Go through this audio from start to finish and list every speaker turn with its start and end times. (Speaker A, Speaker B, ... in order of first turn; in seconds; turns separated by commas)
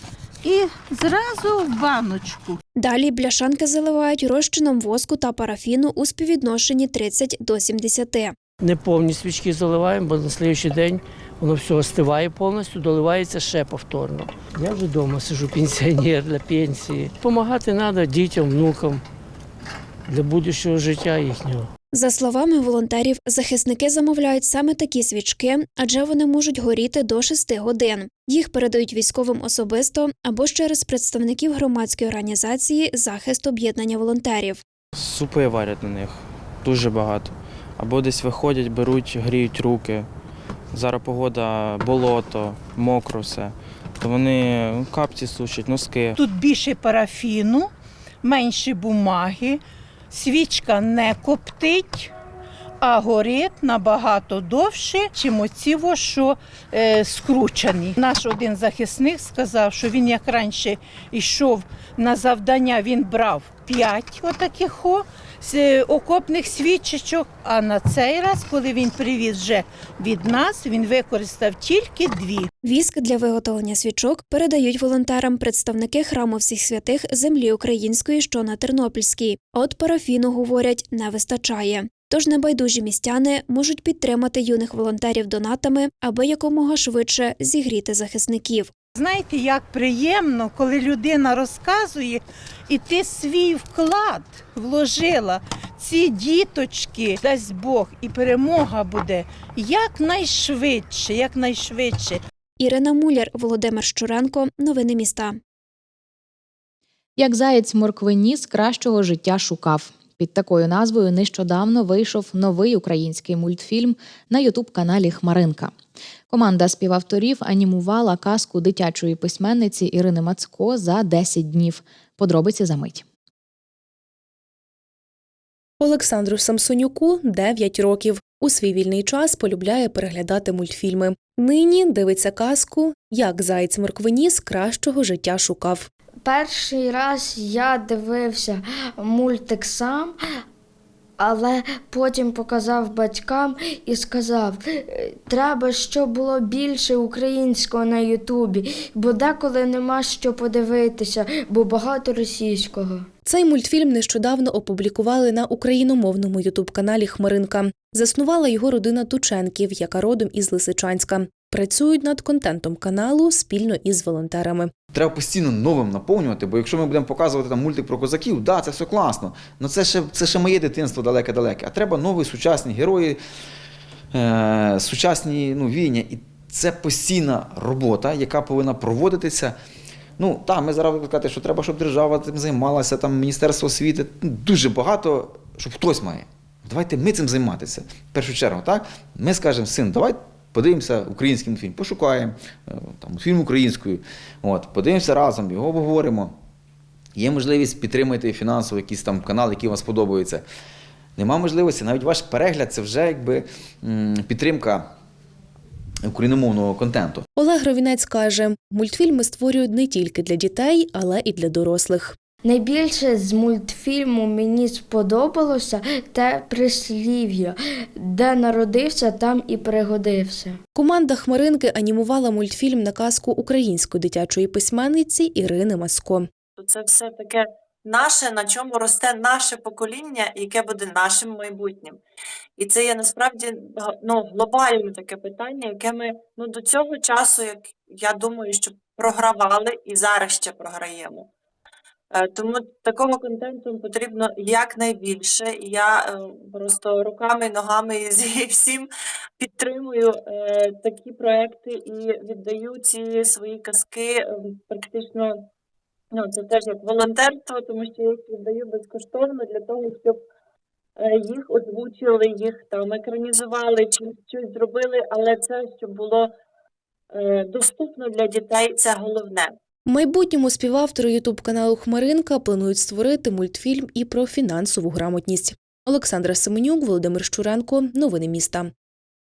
Speaker A: 0.4-2.6, Speaker B: 2.8-8.3, Speaker C: 8.6-19.0, Speaker C: 20.1-21.7, Speaker B: 21.9-34.6, Speaker D: 34.9-40.1, Speaker D: 40.7-46.2, Speaker A: 46.1-47.7, Speaker A: 48.2-52.1, Speaker A: 52.8-72.5, Speaker B: 72.6-88.7, Speaker A: 88.9-102.2, Speaker B: 102.6-105.4, Speaker E: 107.2-115.7, Speaker E: 116.3-123.0, Speaker F: 125.8-135.9, Speaker G: 136.2-140.1, Speaker G: 141.2-153.1, Speaker F: 153.2-164.7, Speaker H: 164.9-173.2, Speaker H: 174.1-179.6, Speaker H: 180.2-196.3, Speaker H: 197.2-200.4, Speaker H: 201.2-204.9, Speaker H: 206.1-207.2, Speaker F: 207.4-212.2, Speaker G: 212.4-217.5, Speaker G: 218.0-220.6, Speaker F: 220.8-226.3, Speaker I: 226.6-232.0, Speaker I: 232.6-241.3, Speaker I: 242.1-248.9, Speaker I: 249.4-255.4, Speaker I: 256.1-260.2, Speaker I: 261.0-266.3, Speaker I: 267.1-269.5, Speaker F: 269.9-278.7